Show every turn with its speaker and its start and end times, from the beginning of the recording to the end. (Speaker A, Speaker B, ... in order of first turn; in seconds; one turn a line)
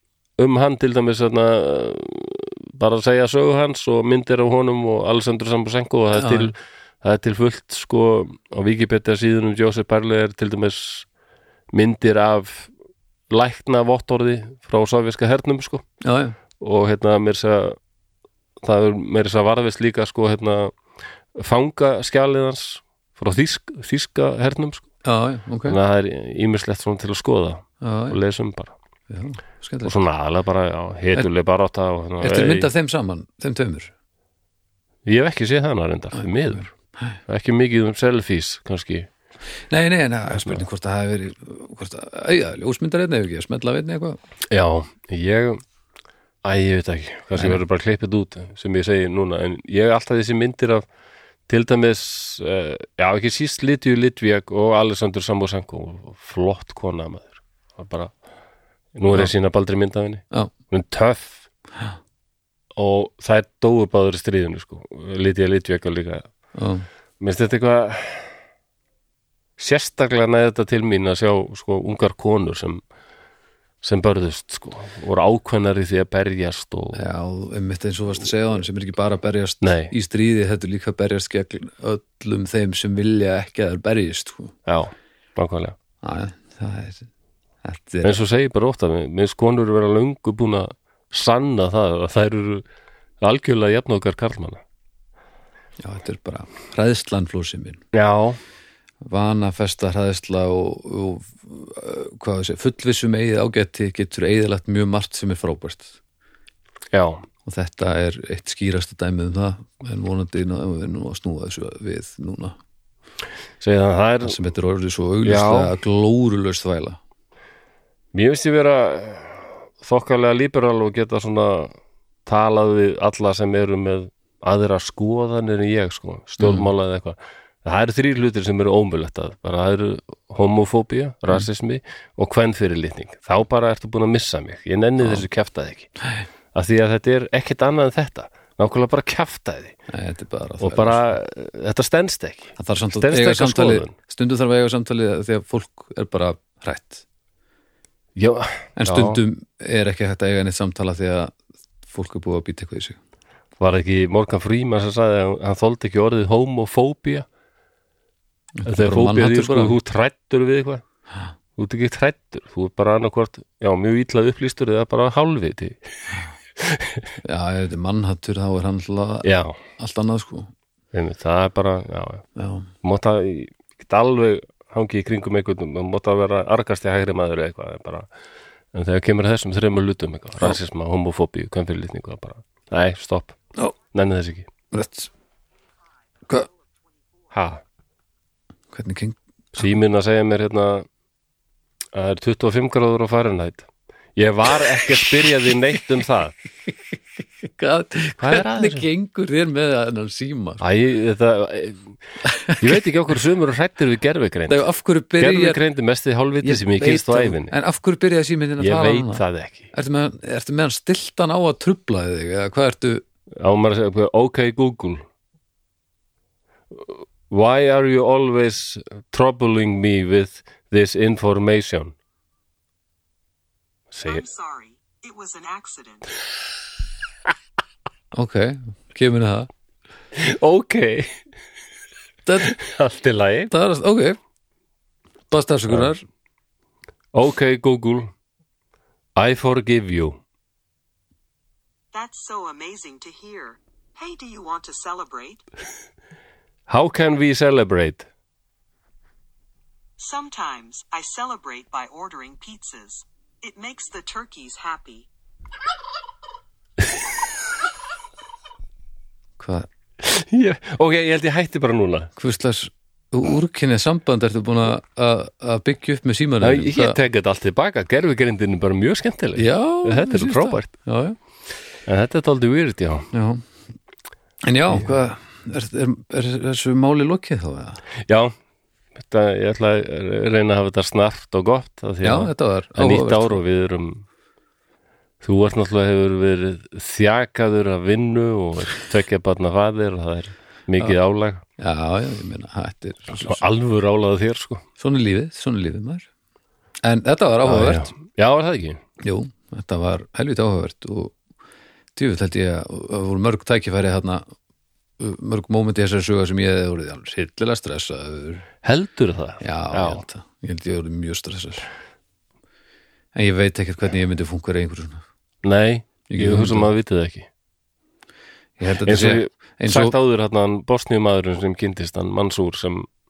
Speaker A: 0.4-11.1
Speaker B: 6.1-6.5
Speaker A: 11.7-12.7
Speaker A: 13.3-15.8
Speaker B: 16.0-16.4
Speaker A: 16.6-17.8
Speaker A: 18.6-20.8
Speaker A: 21.4-24.9
Speaker B: 25.0-25.8
Speaker A: 25.7-28.8
Speaker B: 27.8-28.2
Speaker B: 29.1-29.9
Speaker A: 29.8-32.7
Speaker B: 32.2-33.9
Speaker A: 35.0-36.7
Speaker B: 36.2-37.2
Speaker A: 37.3-39.1
Speaker B: 39.7-44.2
Speaker A: 40.3-40.6
Speaker A: 44.5-45.6
Speaker A: 46.4-50.9
Speaker A: 51.5-58.1
Speaker A: 59.0-61.5
Speaker A: 62.8-66.3
Speaker B: 66.5-66.9
Speaker A: 67.2-68.3
Speaker A: 69.6-72.8
Speaker A: 73.8-77.0
Speaker B: 76.9-84.5
Speaker A: 79.6-79.9
Speaker A: 84.7-85.8
Speaker B: 86.0-87.1
Speaker B: 87.6-88.2
Speaker A: 88.0-92.7
Speaker A: 93.2-94.6
Speaker B: 95.8-97.8
Speaker A: 97.9-98.4
Speaker B: 99.0-106.0
Speaker A: 106.9-107.2
Speaker B: 107.5-112.6
Speaker A: 113.6-114.4
Speaker B: 114.2-117.0
Speaker A: 115.2-115.8
Speaker A: 118.1-121.7
Speaker A: 122.3-135.9
Speaker B: 126.4-126.7
Speaker A: 136.5-139.8
Speaker B: 139.9-141.0
Speaker A: 140.6-143.9
Speaker B: 142.6-147.0
Speaker A: 148.2-149.2
Speaker B: 148.8-151.3
Speaker B: 151.9-153.0
Speaker A: 153.6-157.3
Speaker B: 158.6-159.8
Speaker A: 158.7-160.8
Speaker A: 161.6-165.8
Speaker A: 166.6-167.1
Speaker B: 167.2-169.3
Speaker A: 169.2-169.6
Speaker B: 169.8-170.5
Speaker A: 170.9-172.2
Speaker B: 172.4-172.7
Speaker A: 172.8-178.1
Speaker A: 178.7-183.4
Speaker A: 183.9-184.5
Speaker B: 184.7-185.1
Speaker A: 187.3-187.6
Speaker B: 188.7-189.2
Speaker A: 189.6-190.9
Speaker A: 191.9-196.3
Speaker B: 197.6-200.6
Speaker A: 198.2-198.9
Speaker A: 200.6-202.0
Speaker B: 202.2-202.7
Speaker A: 202.6-204.6
Speaker B: 204.5-205.6
Speaker A: 205.2-207.5
Speaker B: 206.4-213.0
Speaker A: 208.6-209.7
Speaker A: 213.4-215.1
Speaker A: 216.7-221.9
Speaker A: 223.9-224.2
Speaker C: 224.1-226.1
Speaker B: 228.1-229.5
Speaker A: 230.2-231.2
Speaker B: 232.3-232.6
Speaker A: 232.4-233.5
Speaker B: 233.5-234.2
Speaker B: 235.3-236.0
Speaker A: 237.1-238.1
Speaker A: 239.2-240.2
Speaker C: 241.9-245.4
Speaker A: 246.7-248.1
Speaker C: 250.0-255.1
Speaker B: 259.4-259.7
Speaker A: 260.0-262.1
Speaker B: 262.2-267.0
Speaker A: 266.4-270.7
Speaker B: 269.4-271.2
Speaker A: 271.9-273.1
Speaker B: 273.1-273.4
Speaker B: 274.4-277.8
Speaker A: 278.1-278.3
Speaker A: 279.0-284.1
Speaker B: 282.0-283.4
Speaker A: 285.2-291.4
Speaker B: 291.6-293.4
Speaker A: 293.1-294.6
Speaker B: 294.8-296.1
Speaker B: 296.8-297.9
Speaker A: 297.4-298.8
Speaker B: 299.0-301.2
Speaker B: 302.0-304.2
Speaker B: 305.0-308.4
Speaker A: 308.6-310.0
Speaker B: 309.4-311.7
Speaker B: 313.1-315.1
Speaker A: 315.4-317.3
Speaker B: 316.1-316.7
Speaker B: 318.6-319.9
Speaker A: 318.9-322.9